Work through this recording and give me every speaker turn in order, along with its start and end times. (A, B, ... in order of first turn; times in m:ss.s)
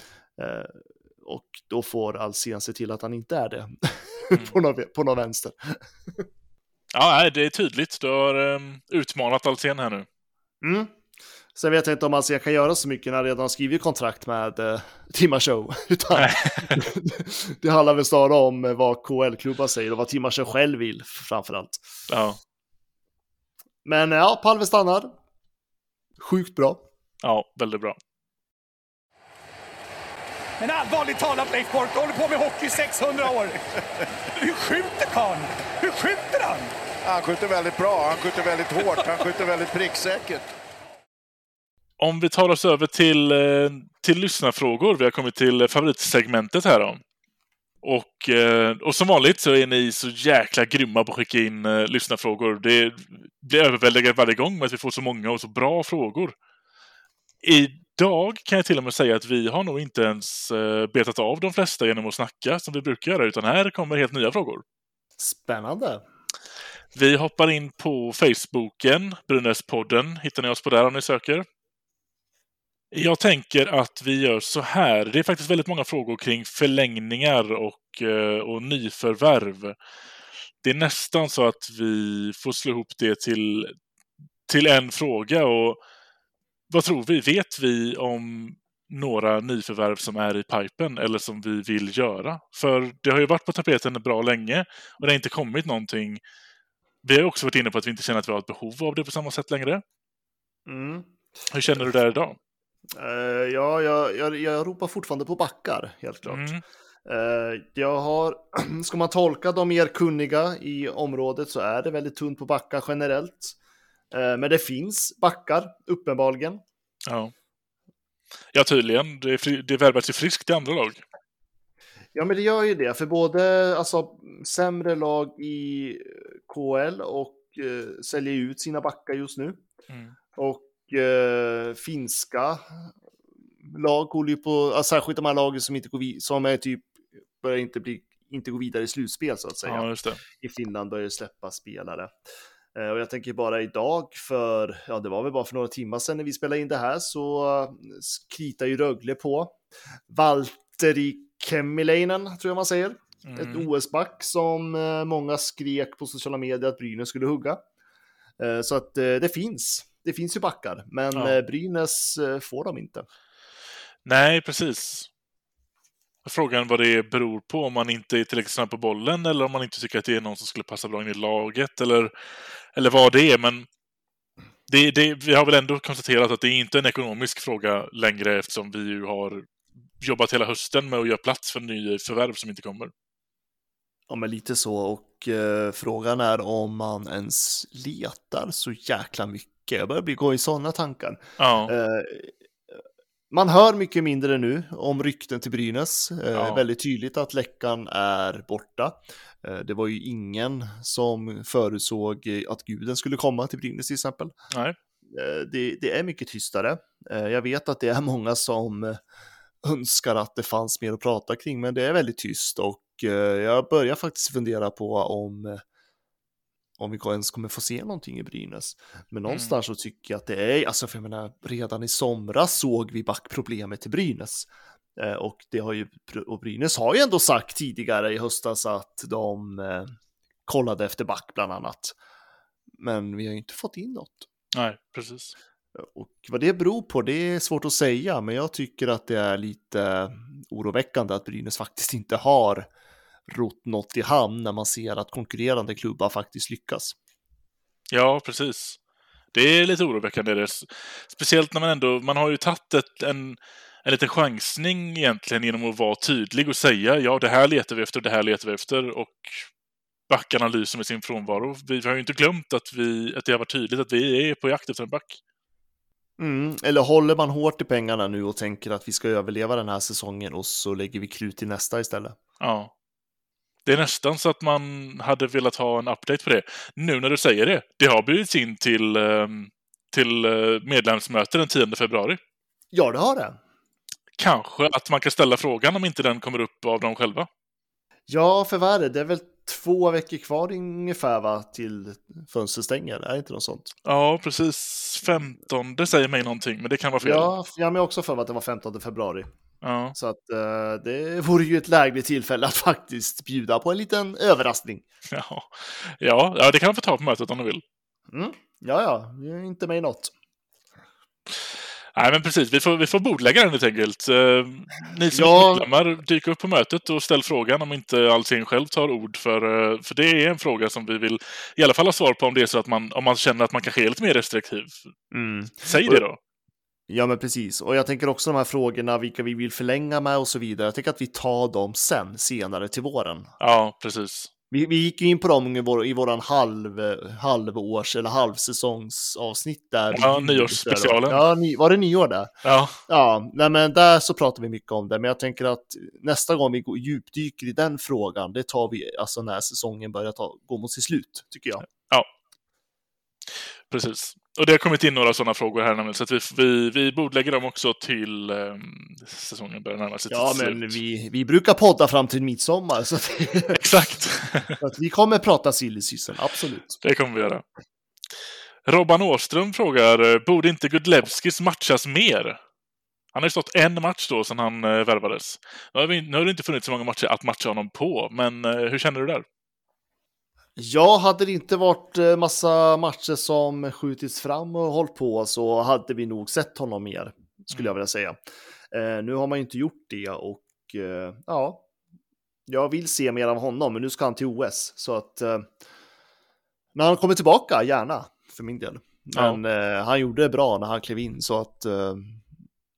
0:00.4-0:06.2 A
0:06.9-0:10.1 B
0:10.6-0:10.9 A
0:11.6-0:21.8 A
0:16.2-0:16.8 B
0:22.1-0:22.4 B
0:23.8-0:25.1 A
0:26.2-0:26.8 A
0:27.2-0:28.0 B
0:30.6-0:33.6 C
0:34.3-0:36.7 C
0:37.0-0:40.5 D
0:42.0-0:47.0 B
0:47.8-0:56.4 B
0:57.4-1:04.6 B
1:05.2-1:06.0 A
1:07.0-1:11.5 B
1:12.9-1:19.8 B
1:20.6-1:23.8 B
1:24.5-1:25.8 B
1:26.7-1:36.2 B
1:37.0-1:39.8 B
1:40.7-1:41.1 A
1:41.5-1:42.4 B
1:43.0-1:46.5 A
1:46.3-1:46.6 B
1:47.1-1:53.6 A
1:54.1-1:56.6 A
1:57.1-1:57.3 B
1:58.5-2:01.0 B
2:02.2-2:09.6 A
2:10.4-2:12.9 A
2:13.7-2:16.9 A
2:17.4-2:19.9 A
2:19.6-2:20.2 B
2:20.4-2:22.1 A
2:22.8-2:29.6 A
2:30.1-2:37.6 A
2:33.2-2:33.7 B
2:38.4-2:43.0 A
2:44.0-2:45.1 B
2:46.2-2:52.1 B
2:52.7-2:53.7 B
2:54.7-2:59.5 B
3:00.0-3:02.9 B
3:04.1-3:12.3 A
3:11.4-3:11.7 B
3:13.3-3:24.3 A
3:16.4-3:16.6 B
3:24.5-3:24.8 B
3:25.1-3:29.0 A
3:29.6-3:35.6 A
3:36.8-3:49.9 A
3:39.3-3:39.6 B
3:50.5-3:52.0 A
3:52.8-3:54.3 A
3:54.5-3:55.4 B
3:55.8-4:02.7 A
4:03.3-4:07.0 A
4:07.9-4:08.8 B
4:09.3-4:19.5 B
4:20.1-4:25.2 B
4:26.2-4:32.2 A
4:32.4-4:32.7 B
4:33.7-4:42.2 B
4:42.7-4:43.4 A
4:44.2-4:47.3 B
4:48.1-4:53.7 A
4:53.8-4:57.3 B
4:57.0-4:59.3 A
4:59.6-5:00.0 B
5:00.0-5:04.8 A
5:05.1-5:07.6 B
5:08.1-5:10.1 A
5:12.0-5:24.9 B
5:15.1-5:15.7 A
5:25.1-5:26.0 A
5:25.6-5:26.2 B
5:26.9-5:33.3 A
5:33.4-5:34.3 B
5:34.5-5:42.3 A
5:39.9-5:41.2 B
5:42.4-5:42.8 B
5:42.9-5:51.6 A
5:51.7-5:52.1 B
5:53.7-6:00.8 B
6:00.1-6:03.6 A
6:03.6-6:04.6 B
6:04.6-6:06.8 A
6:06.8-6:07.4 B
6:08.6-6:12.4 B
6:13.1-6:19.2 B
6:20.6-6:28.2 A
6:28.7-6:31.6 A
6:32.5-6:35.5 A
6:36.8-6:42.2 A
6:39.2-6:39.4 B